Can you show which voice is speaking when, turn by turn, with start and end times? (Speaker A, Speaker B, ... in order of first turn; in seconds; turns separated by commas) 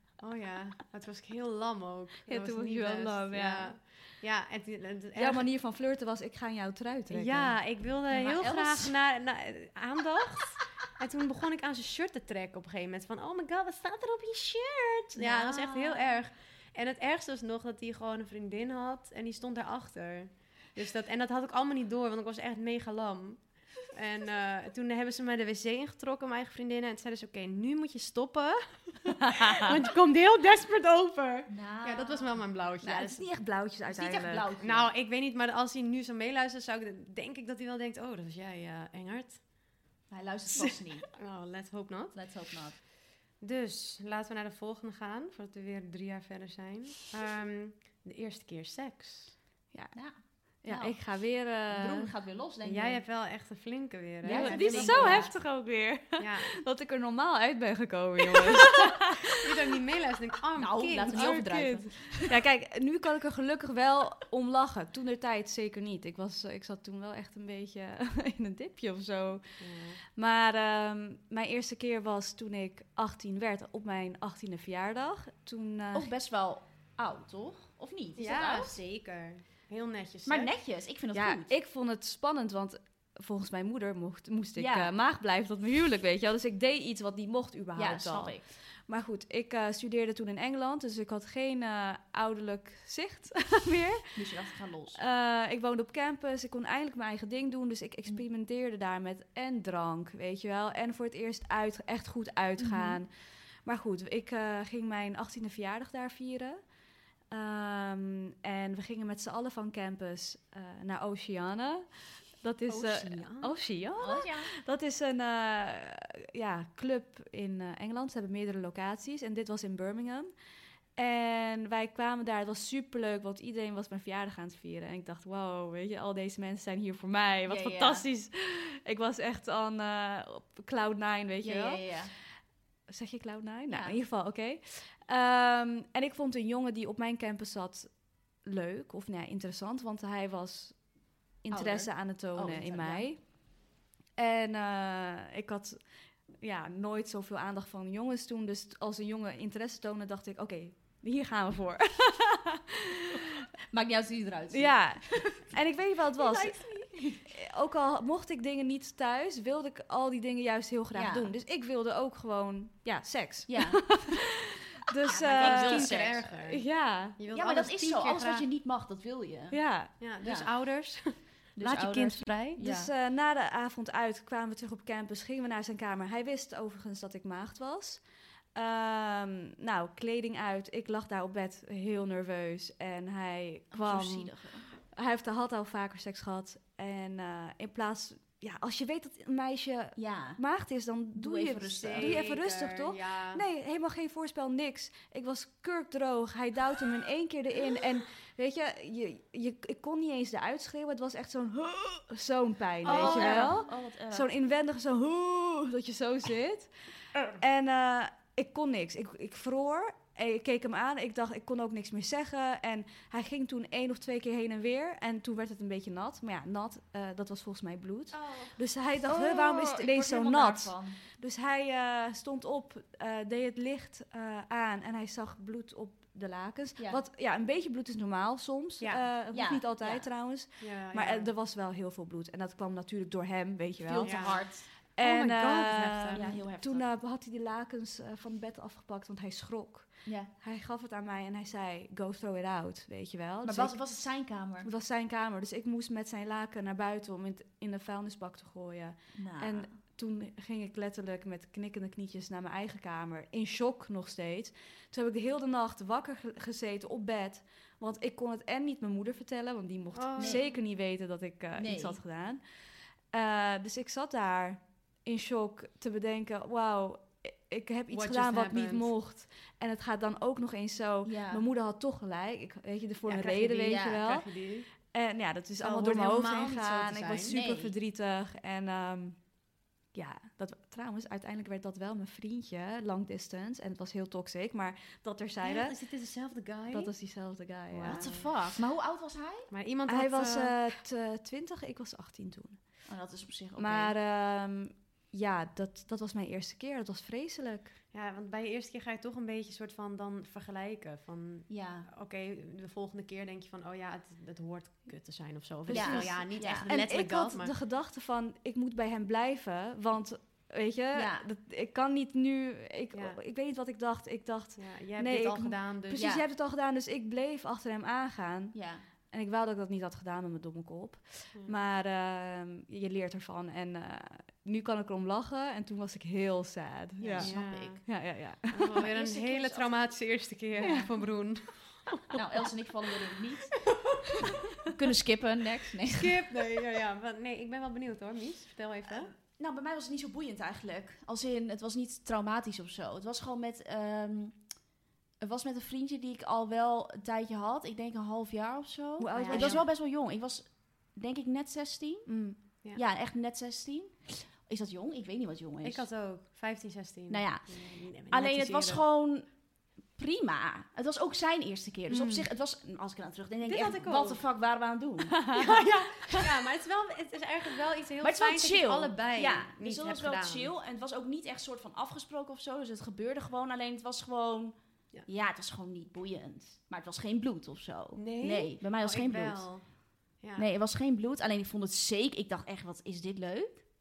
Speaker A: 0.2-5.5, Speaker B: 2.3-3.8, Speaker B: 5.2-7.6, Speaker A: 7.1-33.2, Speaker C: 8.1-8.9, Speaker C: 15.2-16.0, Speaker C: 31.5-34.9, Speaker B: 33.2-34.5, Speaker A: 34.6-39.5, Speaker C: 40.1-41.1, Speaker A: 40.6-42.8, Speaker C: 42.1-42.8, Speaker A: 43.4-49.4, Speaker B: 49.7-52.1, Speaker C: 49.9-53.0, Speaker A: 52.6-55.5, Speaker C: 54.2-55.3, Speaker B: 54.3-59.2, Speaker A: 56.2-56.6, Speaker A: 59.3-61.5, Speaker C: 60.6-62.3, Speaker B: 61.1-69.6, Speaker A: 69.6-70.0, Speaker B: 70.2-76.1, Speaker C: 75.9-78.8, Speaker A: 78.2-80.5, Speaker C: 80.2-81.5, Speaker B: 81.1-94.3, Speaker C: 84.6-84.9, Speaker C: 87.8-88.4, Speaker C: 94.2-95.0, Speaker B: 95.0-103.1, Speaker C: 102.6-103.0, Speaker B: 103.6-106.6, Speaker B: 107.3-120.3, Speaker A: 112.7-113.6, Speaker C: 114.0-114.5, Speaker B: 121.0-132.1, Speaker C: 127.5-128.1, Speaker C: 131.4-132.1, Speaker B: 132.9-143.4, Speaker C: 133.7-134.0, Speaker C: 141.5-143.1, Speaker B: 144.2-152.6, Speaker C: 153.7-155.5, Speaker B: 154.5-164.2, Speaker A: 156.2-157.2, Speaker C: 160.9-161.3, Speaker C: 163.5-164.1, Speaker B: 164.9-167.2, Speaker A: 165.1-168.5, Speaker C: 165.2-166.3, Speaker C: 167.3-169.6, Speaker B: 169.5-169.9, Speaker A: 170.0-172.6, Speaker C: 170.2-170.5, Speaker C: 171.6-172.9, Speaker B: 172.6-178.0, Speaker B: 178.5-206.7, Speaker C: 183.7-184.7, Speaker C: 190.0-190.4, Speaker C: 191.2-192.2, Speaker A: 191.8-193.4, Speaker A: 202.8-203.6, Speaker C: 202.8-204.3, Speaker B: 207.4-243.8, Speaker C: 219.0-221.0, Speaker A: 228.8-229.1, Speaker C: 229.3-230.1, Speaker A: 230.6-231.3, Speaker C: 233.8-234.7, Speaker A: 234.0-236.4, Speaker C: 236.2-236.9, Speaker C: 240.1-240.3, Speaker C: 243.4-244.7, Speaker B: 244.6-262.4, Speaker C: 249.2-249.7, Speaker A: 259.9-260.6, Speaker C: 260.2-260.5, Speaker C: 261.6-262.0, Speaker B: 263.1-274.3, Speaker A: 267.9-268.9, Speaker C: 271.1-271.5, Speaker A: 273.1-274.7, Speaker C: 273.6-274.0, Speaker B: 274.8-279.2, Speaker A: 275.6-277.3, Speaker C: 277.2-277.8, Speaker B: 279.9-285.8, Speaker A: 285.4-286.9, Speaker B: 286.7-288.3, Speaker A: 287.7-288.3, Speaker C: 287.8-289.5, Speaker A: 289.5-290.6, Speaker B: 289.9-292.6, Speaker C: 292.9-293.9, Speaker B: 293.6-297.7, Speaker A: 297.9-307.5, Speaker C: 301.5-301.9, Speaker B: 305.7-318.6, Speaker C: 305.7-306.8, Speaker C: 310.9-311.2, Speaker A: 312.9-313.2, Speaker A: 314.6-316.1, Speaker C: 315.9-316.2, Speaker C: 318.5-318.8, Speaker B: 319.1-328.9, Speaker C: 327.0-327.9, Speaker A: 327.2-327.9, Speaker A: 328.5-332.0, Speaker C: 328.8-329.8, Speaker C: 330.6-330.9, Speaker B: 330.6-330.9, Speaker C: 332.1-333.6, Speaker C: 334.6-336.2, Speaker A: 335.9-339.1, Speaker C: 339.4-344.4, Speaker C: 345.2-355.9, Speaker B: 349.0-349.6, Speaker A: 349.1-349.7, Speaker B: 352.1-352.4, Speaker A: 355.6-358.8, Speaker C: 357.1-365.4, Speaker B: 361.9-362.3, Speaker A: 363.4-364.2, Speaker B: 365.2-365.5, Speaker A: 365.4-370.5, Speaker C: 368.0-379.5, Speaker A: 378.0-379.7, Speaker A: 380.2-380.5, Speaker C: 380.4-383.7